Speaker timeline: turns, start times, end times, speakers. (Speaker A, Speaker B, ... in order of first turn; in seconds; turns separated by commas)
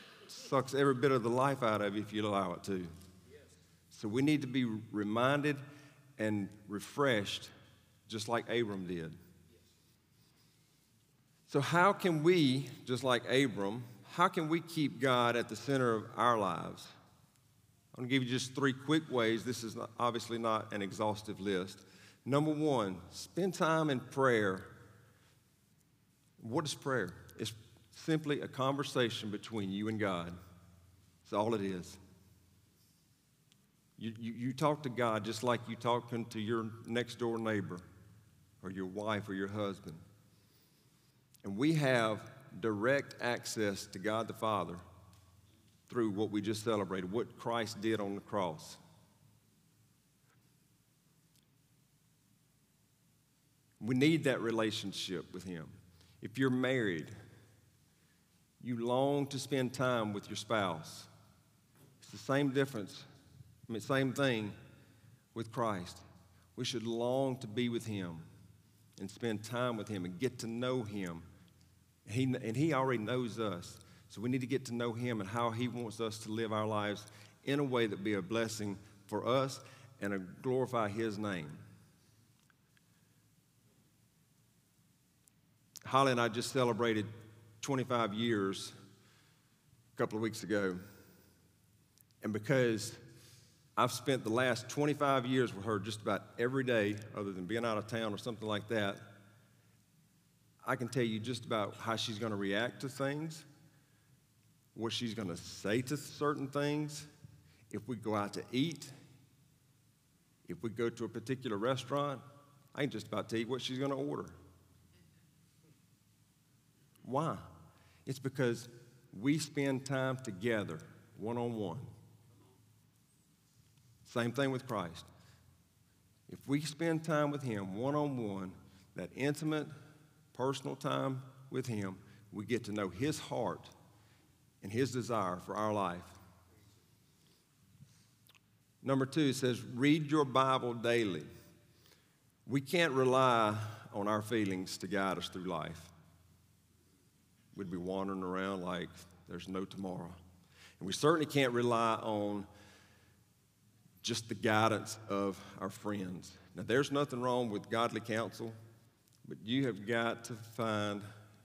Speaker A: 0.3-2.9, Speaker A: 3.9-5.6, Speaker A: 6.2-7.5, Speaker A: 8.1-9.2, Speaker A: 11.5-16.9, Speaker A: 17.9-24.7, Speaker A: 26.4-30.4, Speaker A: 31.2-32.0, Speaker A: 34.0-37.8, Speaker A: 38.6-40.0, Speaker A: 41.4-44.8, Speaker A: 45.9-48.8, Speaker A: 53.8-57.1, Speaker A: 58.6-61.1, Speaker A: 62.0-63.0, Speaker A: 63.7-64.5, Speaker A: 65.3-66.0, Speaker A: 66.5-68.3, Speaker A: 69.0-71.3, Speaker A: 72.0-81.6, Speaker A: 85.8-87.1, Speaker A: 87.6-88.7, Speaker A: 89.9-90.8, Speaker A: 92.2-93.0, Speaker A: 93.8-99.1, Speaker A: 100.6-103.5, Speaker A: 104.7-107.1, Speaker A: 107.7-108.9, Speaker A: 110.5-112.2, Speaker A: 112.7-114.3, Speaker A: 117.0-117.5, Speaker A: 118.0-121.9, Speaker A: 124.0-125.1, Speaker A: 126.3-129.7, Speaker A: 130.3-133.7, Speaker A: 134.6-136.1, Speaker A: 138.8-141.3, Speaker A: 142.4-145.9, Speaker A: 147.5-150.2, Speaker A: 150.8-152.5, Speaker A: 154.0-158.6, Speaker A: 159.2-161.1